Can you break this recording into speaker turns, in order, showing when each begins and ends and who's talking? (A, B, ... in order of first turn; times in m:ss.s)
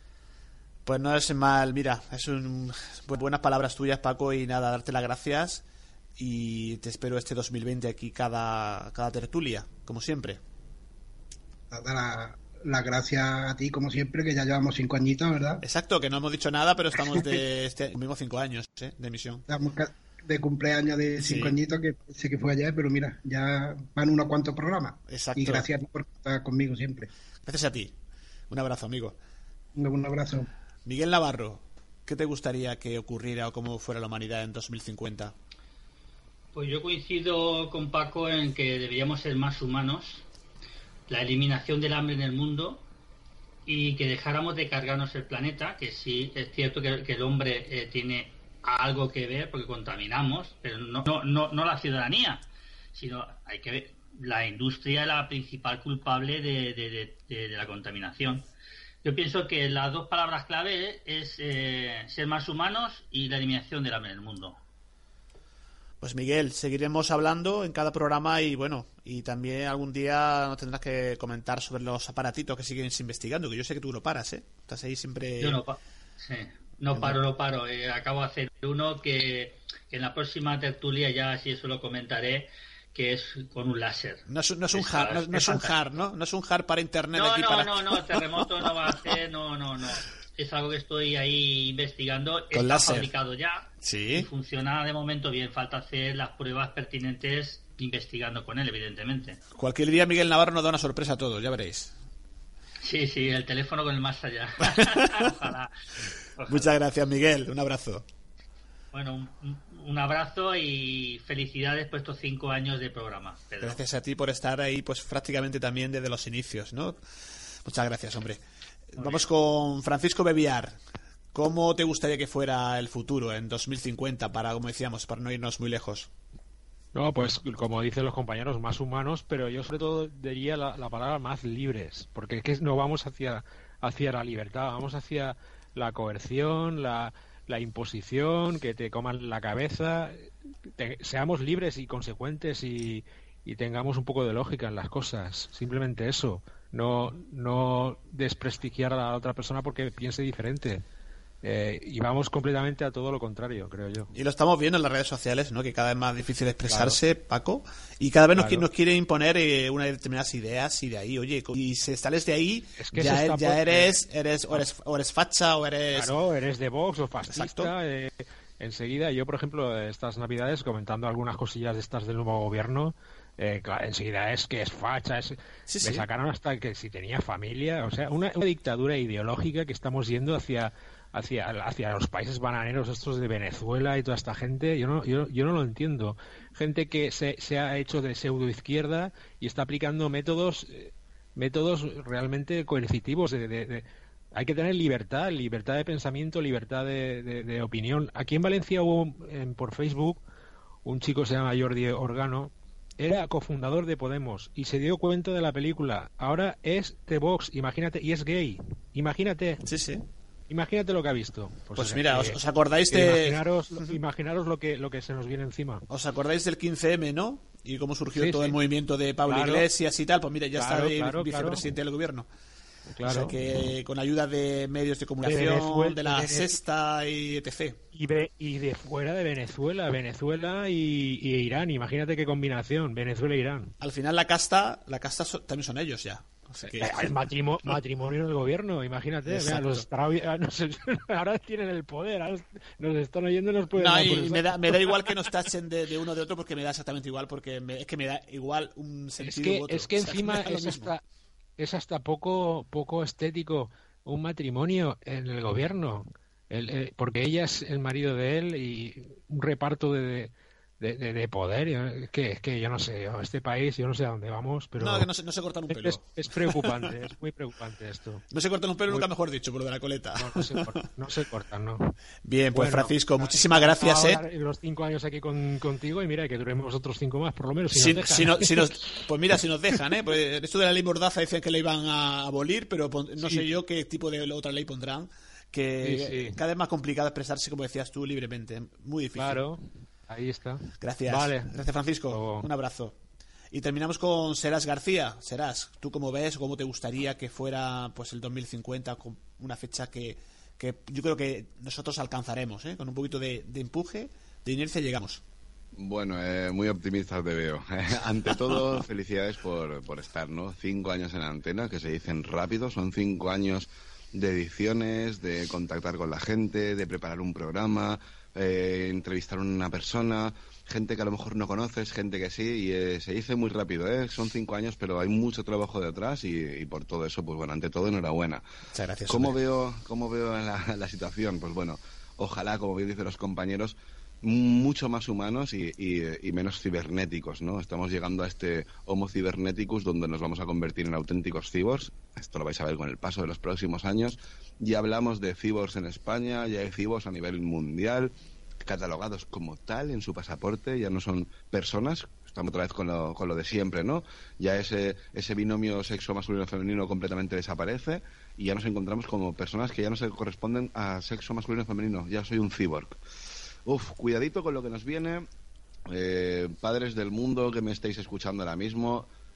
0:00.8-0:05.6 A
0:06.2-0:10.4 A
0:11.7-0:15.6 B
0:15.6-0:19.4 A
0:19.5-0:27.1 B
0:21.2-0:21.6 A
0:25.1-0:25.7 A
0:27.4-0:27.9 A
0:28.5-0:29.2 A
0:29.8-0:30.5 B
0:30.9-0:35.3 A
0:36.5-0:40.3 C
0:41.1-0:42.8 C
0:43.6-0:58.4 C
0:59.0-1:04.6 C
1:06.0-1:15.6 A
1:15.4-1:25.7 C
1:24.3-1:29.2 A
1:27.1-1:39.4 C
1:32.5-1:33.1 A
1:33.8-1:34.3 A
1:39.6-1:41.9 A
1:42.8-1:45.7 C
1:44.8-1:45.3 A
1:46.4-1:46.7 C
1:46.5-1:48.0 A
1:48.9-1:53.8 C
1:53.6-1:57.0 A
1:57.6-1:58.4 A
1:58.9-2:00.8 A
1:59.0-1:59.3 C
2:01.3-2:06.1 A
2:06.9-2:30.8 D
2:31.4-2:34.1 D
2:34.1-2:46.1 A
2:36.7-2:37.0 D
2:38.4-2:38.7 D
2:42.8-2:43.9 D
2:45.9-3:20.2 D
2:47.3-2:47.7 A
2:55.7-2:56.1 A
3:20.8-3:29.6 D
3:29.6-3:30.0 A
3:30.5-3:32.4 D
3:31.8-3:34.0 A
3:32.9-3:35.8 D
3:35.9-3:42.3 A
3:38.2-3:38.6 D
3:39.3-3:39.7 D
3:40.6-3:41.6 D
3:42.9-3:43.4 D
3:43.0-3:47.8 A
3:45.2-3:46.6 D
3:47.9-3:53.7 D
3:53.8-3:57.1 A
3:56.7-4:05.2 D
3:59.3-3:59.8 A
4:03.8-4:10.9 A
4:09.2-4:11.0 D
4:11.6-4:25.1 D
4:24.8-4:26.7 A
4:25.7-4:28.2 D
4:28.3-4:30.7 A
4:30.2-4:31.9 D
4:32.2-4:34.2 A
4:32.5-4:39.0 D
4:37.7-4:49.4 A
4:43.2-4:43.4 D
4:45.8-4:46.4 D
4:49.2-4:51.6 D
4:50.8-4:53.0 A
4:52.1-4:52.5 D
4:53.5-5:05.2 A
5:05.7-5:28.4 E
5:28.7-5:29.4 A
5:29.1-6:03.0 E
6:03.6-6:05.3 E
6:05.9-6:09.1 E